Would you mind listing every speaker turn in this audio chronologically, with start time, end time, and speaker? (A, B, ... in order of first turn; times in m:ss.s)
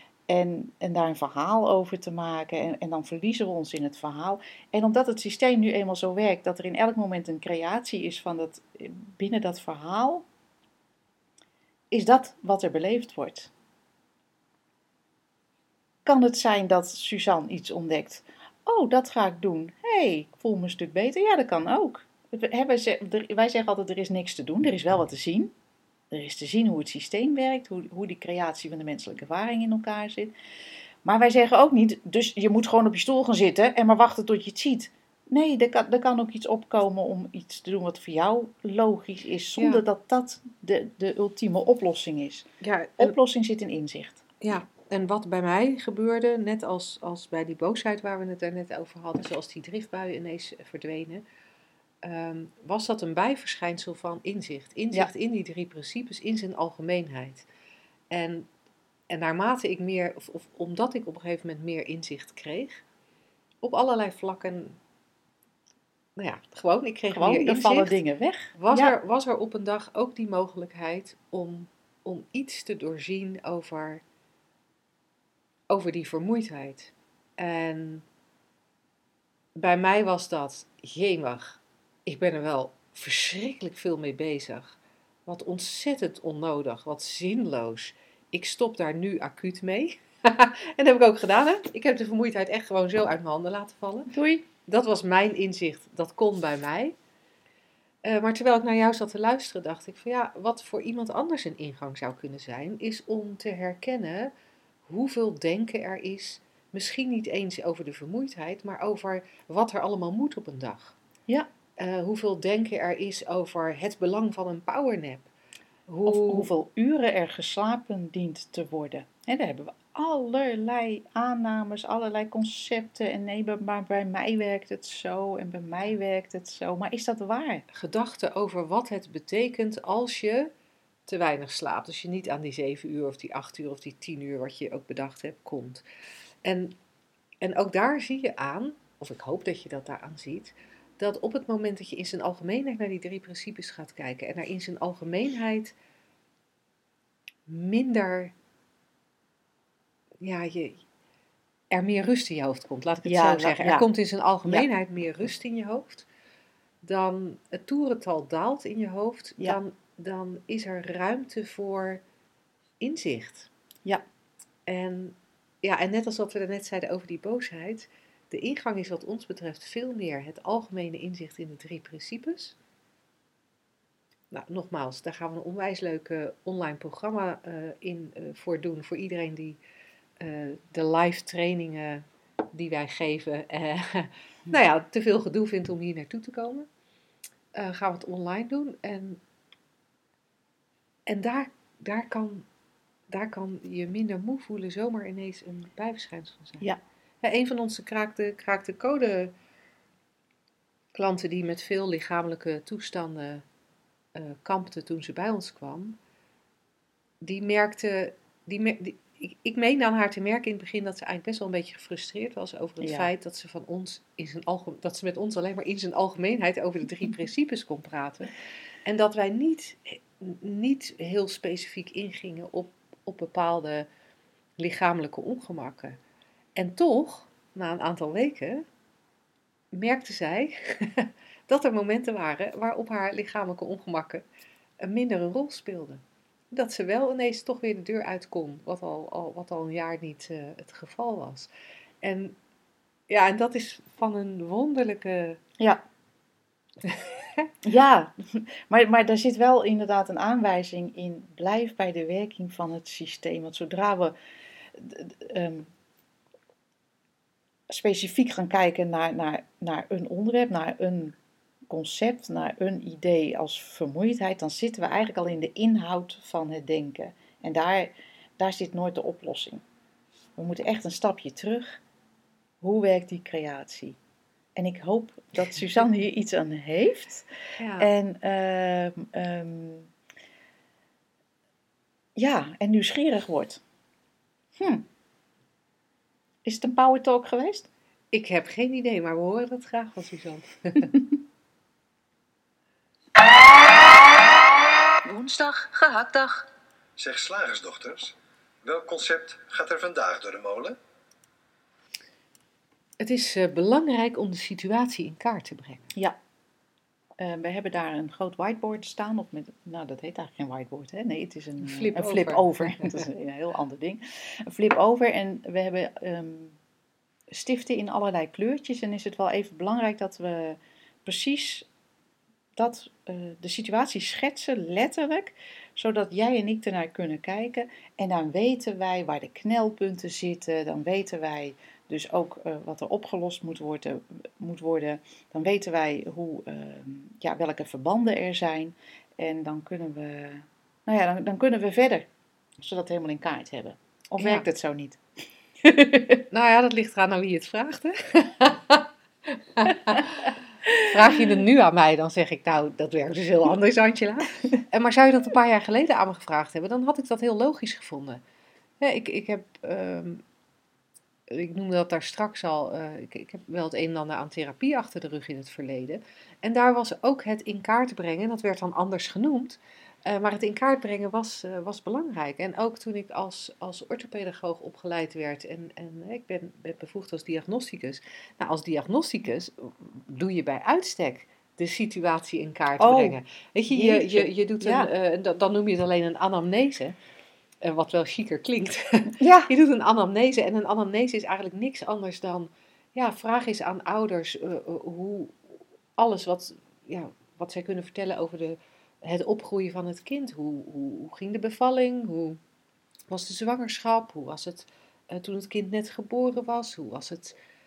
0:00.3-0:10.2 A
0:11.9-0:13.5 A
0:16.0-0:25.5 A
0:26.1-0:30.3 A
0:31.0-0:42.4 A
0:39.6-0:39.8 B
0:42.6-0:43.2 B
0:43.0-0:44.2 A
0:44.4-0:51.2 B
0:52.0-0:57.4 B
0:58.1-0:58.5 B
0:59.1-1:02.8 B
1:03.6-1:04.8 B
1:06.2-1:08.0 B
1:07.1-1:09.0 A
1:08.6-1:14.0 B
1:15.7-1:18.0 B
1:19.6-1:34.1 B
1:34.1-1:34.4 A
1:34.6-1:37.0 B
1:38.0-1:44.3 B
1:44.9-1:51.0 B
1:51.8-1:55.3 B
1:55.9-1:56.5 B
1:56.0-2:07.6 A
2:07.7-2:10.5 B
2:11.1-2:15.8 B
2:16.4-2:16.8 B
2:17.4-2:25.7 B
2:27.5-2:28.3 B
2:30.2-2:30.8 B
2:31.7-2:36.1 B
2:33.0-2:33.9 A
2:36.8-2:42.0 B
2:42.8-2:43.5 B
2:44.7-2:52.6 B
2:54.3-2:59.6 B
3:00.2-3:06.7 B
3:07.5-3:09.2 B
3:11.1-3:12.5 B
3:13.1-3:16.6 B
3:17.2-3:19.3 B
3:20.9-3:23.4 B
3:24.1-3:26.0 B
3:27.2-3:38.3 B
3:32.8-3:33.1 A
3:38.8-3:43.9 B
3:44.6-3:46.0 B
3:46.6-3:48.6 B
3:49.7-3:54.2 B
3:54.8-4:01.5 B
4:02.0-4:02.4 B
4:03.1-4:05.4 B
4:06.8-4:07.4 B
4:07.6-4:14.1 A
4:14.7-4:15.7 A
4:17.7-4:21.2 A
4:21.7-4:29.6 A
4:30.4-4:31.8 A
4:32.6-4:34.0 A
4:34.5-4:37.3 A
4:37.6-4:37.9 B
4:37.8-4:39.9 A
4:42.2-4:43.6 A
4:44.6-4:44.9 A
4:46.4-4:47.7 A
4:48.1-4:50.9 B
4:55.0-4:56.5 A
4:57.0-5:00.8 C
5:03.0-5:05.9 B
5:07.2-5:16.6 A
5:11.6-5:13.1 B
5:17.3-5:21.7 A
5:22.6-5:45.0 A
5:44.2-5:44.5 B
5:45.6-5:46.2 A
5:46.3-5:58.2 B
5:58.8-6:00.2 B
6:01.3-6:26.9 B
6:22.8-6:23.2 A
6:23.7-6:24.9 A
6:27.6-6:42.4 B
6:29.2-6:29.5 A
6:43.1-6:47.4 B